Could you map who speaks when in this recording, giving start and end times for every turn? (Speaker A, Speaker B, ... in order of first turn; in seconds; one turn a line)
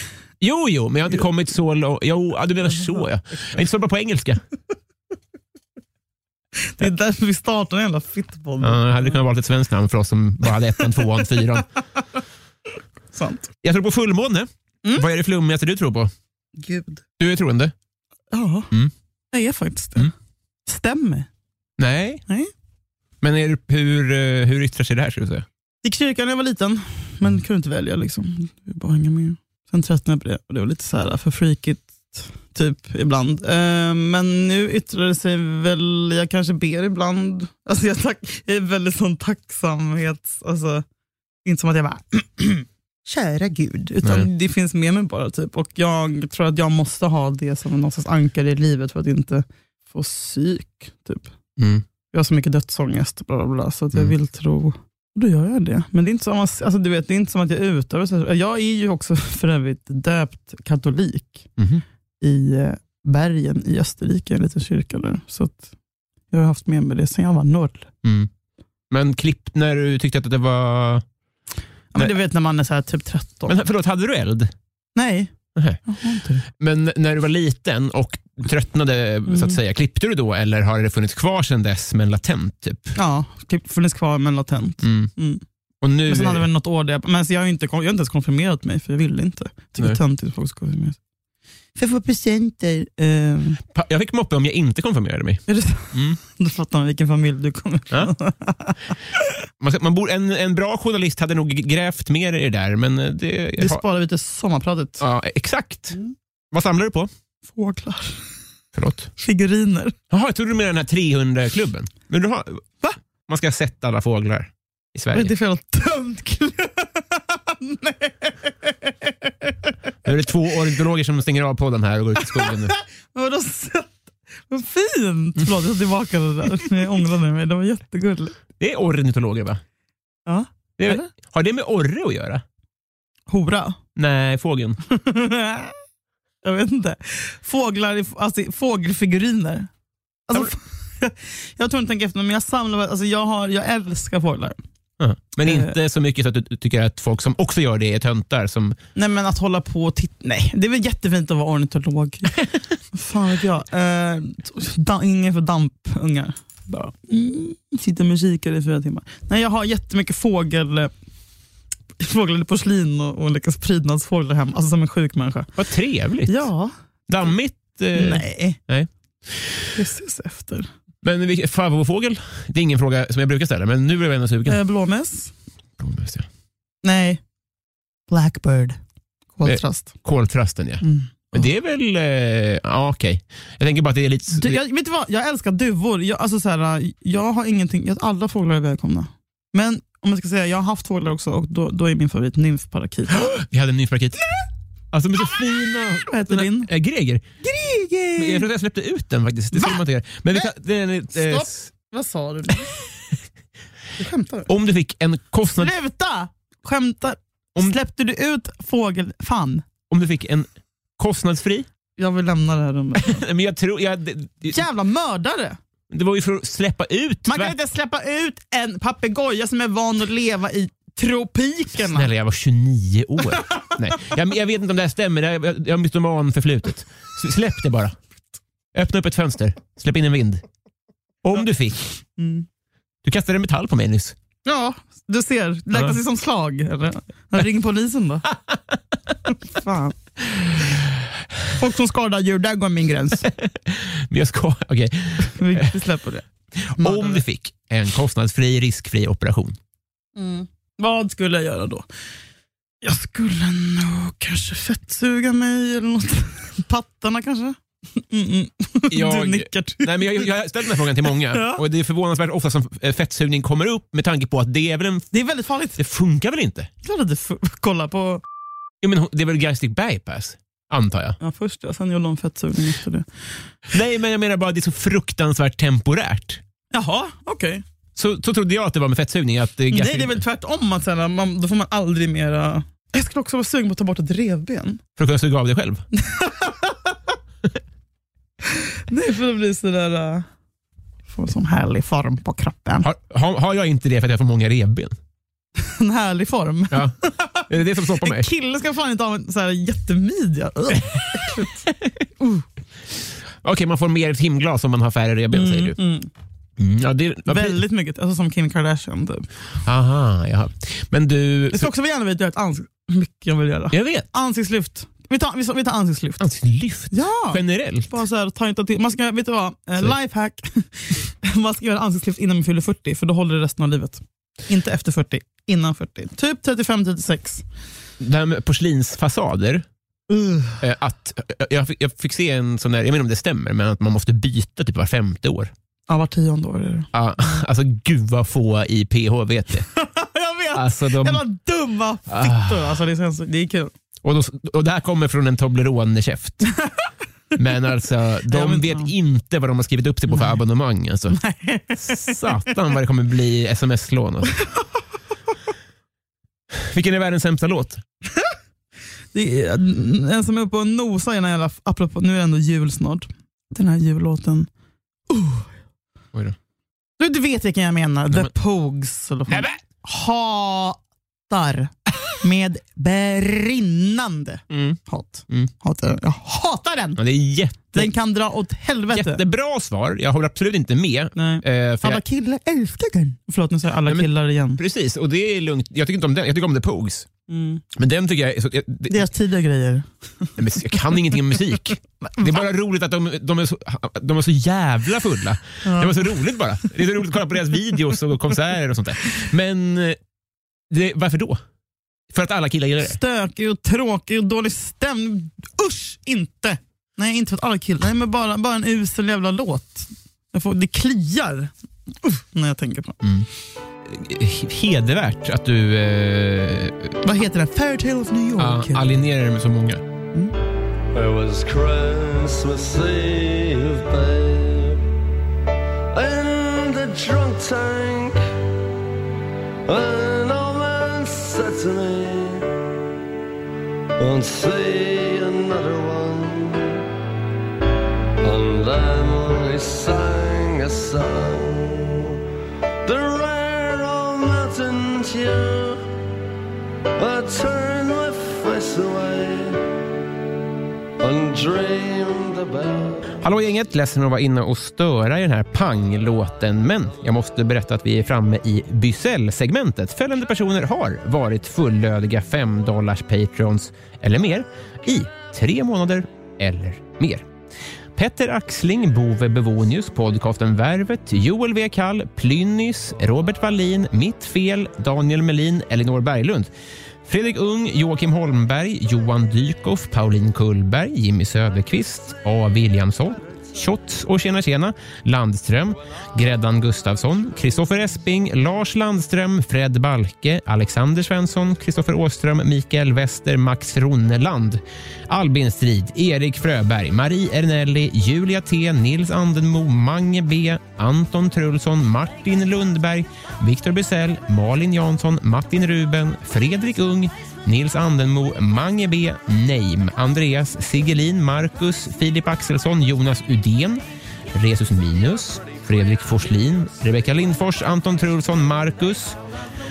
Speaker A: 0.4-4.4
Speaker B: 6.7-9.2
Speaker A: 8.6-11.7
Speaker B: 13.1-13.5
Speaker A: 13.6-16.1
Speaker B: 16.6-17.0
Speaker A: 17.2-17.7
Speaker B: 18.3-18.7
Speaker B: 19.3-20.1
Speaker B: 20.7-21.3
Speaker A: 21.8-22.2
Speaker A: 23.2-25.5
Speaker B: 25.8-40.9
Speaker B: 41.5-51.3
Speaker A: 44.0-44.3
Speaker A: 51.6-51.9
Speaker B: 52.1-61.5
Speaker A: 61.6-61.8
Speaker B: 62.2-65.7
Speaker B: 66.3-67.9
Speaker A: 68.0-68.3
Speaker A: 68.9-71.0
Speaker B: 71.9-73.6
Speaker A: 73.5-74.5
Speaker B: 75.0-75.3
Speaker B: 75.8-76.4
Speaker A: 76.5-83.0
Speaker B: 79.3-79.6
Speaker B: 83.0-85.4
Speaker A: 84.8-85.1
Speaker A: 85.8-86.5
Speaker B: 86.1-91.0
Speaker B: 91.8-93.6
Speaker A: 93.7-96.2
Speaker B: 95.5-98.8
Speaker A: 99.6-103.8
Speaker B: 103.6-105.0
Speaker A: 105.0-106.0
Speaker A: 106.5-107.1
Speaker B: 107.5-108.2
Speaker A: 108.8-109.1
Speaker B: 109.2-110.0
Speaker A: 110.1-112.6
Speaker A: 113.3-115.3
Speaker B: 115.1-119.7
Speaker A: 120.0-122.7
Speaker B: 122.2-124.0
Speaker B: 124.5-128.4
Speaker A: 128.6-129.6
Speaker B: 130.3-131.1
Speaker A: 130.8-132.4
Speaker B: 133.3-133.8
Speaker A: 134.0-134.8
Speaker B: 134.9-135.7
Speaker B: 136.4-139.7
Speaker B: 140.3-144.6
Speaker A: 145.0-148.8
Speaker B: 145.4-145.7
Speaker B: 148.9-152.4
Speaker B: 152.9-160.9
Speaker B: 162.0-165.5
Speaker A: 165.6-166.5
Speaker B: 166.3-166.7
Speaker A: 167.1-169.6
Speaker B: 167.9-168.6
Speaker B: 169.8-170.7
Speaker A: 171.0-174.6
Speaker B: 174.5-175.3
Speaker A: 175.8-176.3
Speaker B: 176.8-177.2
Speaker B: 178.1-178.8
Speaker B: 179.4-179.9
Speaker A: 179.4-184.6
Speaker B: 180.8-181.1
Speaker B: 184.3-193.4
Speaker A: 193.1-194.2
Speaker A: 194.9-197.2
Speaker B: 196.1-196.7
Speaker B: 197.4-198.5
Speaker A: 198.2-201.7
Speaker B: 199.6-199.8
Speaker B: 201.1-202.7
Speaker B: 204.0-204.5
Speaker A: 204.5-205.7
Speaker B: 205.6-209.7
Speaker A: 209.9-211.7
Speaker B: 212.0-213.2
Speaker A: 213.0-214.6
Speaker B: 214.5-215.6
Speaker A: 215.9-217.6
Speaker B: 217.3-222.1
Speaker A: 221.8-228.0
Speaker A: 228.7-230.4
Speaker A: 231.2-231.9
Speaker B: 232.2-232.5
Speaker A: 233.0-234.2
Speaker B: 234.4-238.3
Speaker B: 239.3-240.0
Speaker B: 241.6-243.3
Speaker A: 243.2-245.7
Speaker B: 245.2-247.2
Speaker A: 246.6-249.6
Speaker B: 250.2-251.9
Speaker B: 252.8-261.6
Speaker A: 258.9-265.1
Speaker B: 265.1-265.8
Speaker A: 265.8-266.7
Speaker B: 266.8-268.2
Speaker A: 268.8-271.2
Speaker B: 271.2-273.1
Speaker A: 273.7-276.4
Speaker B: 276.7-277.6
Speaker A: 278.0-280.2
Speaker B: 279.7-284.8
Speaker A: 285.0-285.9
Speaker B: 286.0-286.9
Speaker B: 288.5-290.3
Speaker B: 291.1-292.9
Speaker A: 292.8-295.0
Speaker B: 295.6-301.7
Speaker A: 296.7-297.0
Speaker A: 297.5-298.3
Speaker A: 301.4-301.9
Speaker A: 303.4-305.8
Speaker B: 305.3-306.1
Speaker A: 306.6-307.6
Speaker B: 307.3-309.3
Speaker A: 309.6-311.7
Speaker B: 311.5-316.2
Speaker A: 313.7-314.1
Speaker A: 316.2-317.9
Speaker B: 316.9-327.4
Speaker A: 328.0-329.7
Speaker B: 330.1-330.6
Speaker A: 330.6-335.5
Speaker B: 335.9-336.9
Speaker A: 336.9-339.7
Speaker B: 339.8-343.7
Speaker A: 340.5-341.2
Speaker A: 342.1-342.8
Speaker A: 344.0-346.5
Speaker A: 347.4-351.2
Speaker B: 348.3-348.9
Speaker B: 350.1-350.4
Speaker B: 351.1-352.4
Speaker A: 351.8-354.4
Speaker A: 356.5-357.8
Speaker B: 359.1-364.5
Speaker B: 365.1-365.5
Speaker B: 367.0-377.0
Speaker A: 369.3-369.6
Speaker A: 374.5-375.5
Speaker A: 377.0-377.9
Speaker B: 377.7-379.2
Speaker A: 378.9-382.0
Speaker B: 381.2-384.6
Speaker A: 383.9-387.1
Speaker B: 387.3-387.6
Speaker A: 387.7-389.1
Speaker B: 388.9-390.3
Speaker A: 390.4-400.0
Speaker B: 392.1-392.3
Speaker B: 395.6-396.2
Speaker A: 400.7-401.4
Speaker A: 402.1-403.0
Speaker B: 402.8-411.5
Speaker B: 412.0-413.0
Speaker A: 413.0-413.3
Speaker A: 413.9-417.0
Speaker B: 417.0-418.8
Speaker A: 418.4-419.9
Speaker C: 420.9-424.8
Speaker C: 425.9-428.2
Speaker C: 429.7-432.5
Speaker C: 434.0-436.8
Speaker C: 438.2-442.2
Speaker C: 442.8-445.8
Speaker C: 447.0-449.6
Speaker C: 451.0-453.1
Speaker A: 453.2-467.3
Speaker A: 468.0-476.5
Speaker A: 477.1-519.2